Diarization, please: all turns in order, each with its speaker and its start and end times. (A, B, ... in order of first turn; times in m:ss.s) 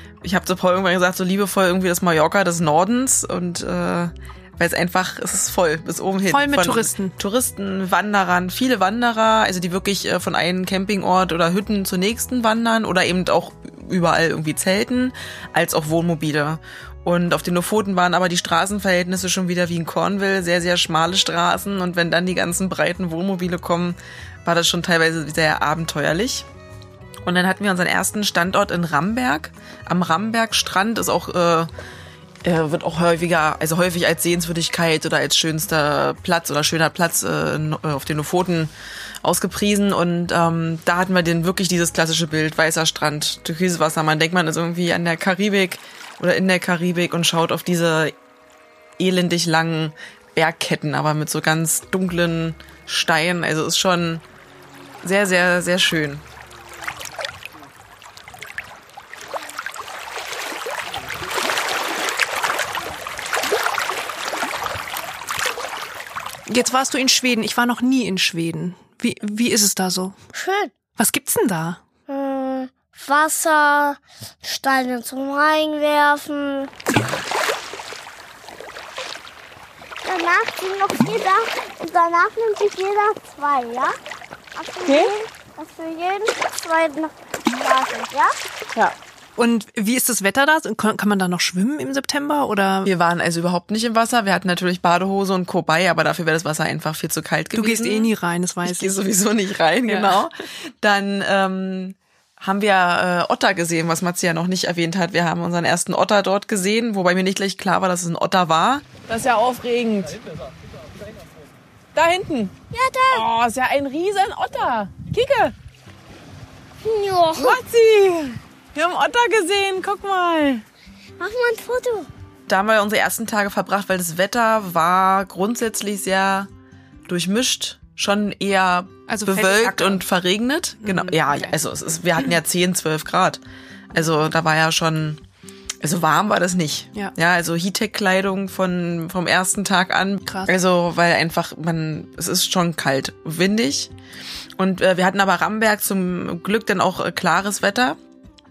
0:00.2-0:26.5 A
0:06.3-0:07.2 B
0:27.3-0:31.7 A
0:32.4-0:48.2 A
0:49.0-0:54.2 A
0:55.0-0:56.2 A
1:06.5-1:10.2 B
1:10.3-1:10.7 C
1:11.0-1:11.8 B
1:12.1-1:16.7 C
1:20.0-1:24.0 C
1:24.6-1:28.4 C
1:24.8-1:25.1 A
1:29.4-1:32.9 B
1:32.8-1:38.1 A
1:37.6-1:39.0 B
1:38.6-1:50.2 A
1:39.9-1:40.2 B
1:52.0-1:52.5 A
1:52.7-1:53.2 C
1:53.1-1:55.6 A
1:56.8-1:57.6 C
1:57.3-2:00.6 A
2:01.2-2:02.1 C
2:02.5-2:06.5 A
2:07.1-2:15.2 A
2:09.1-2:10.0 B
2:10.8-2:11.6 B
2:15.8-2:23.9 A
2:20.3-2:20.5 B
2:24.6-2:28.0 A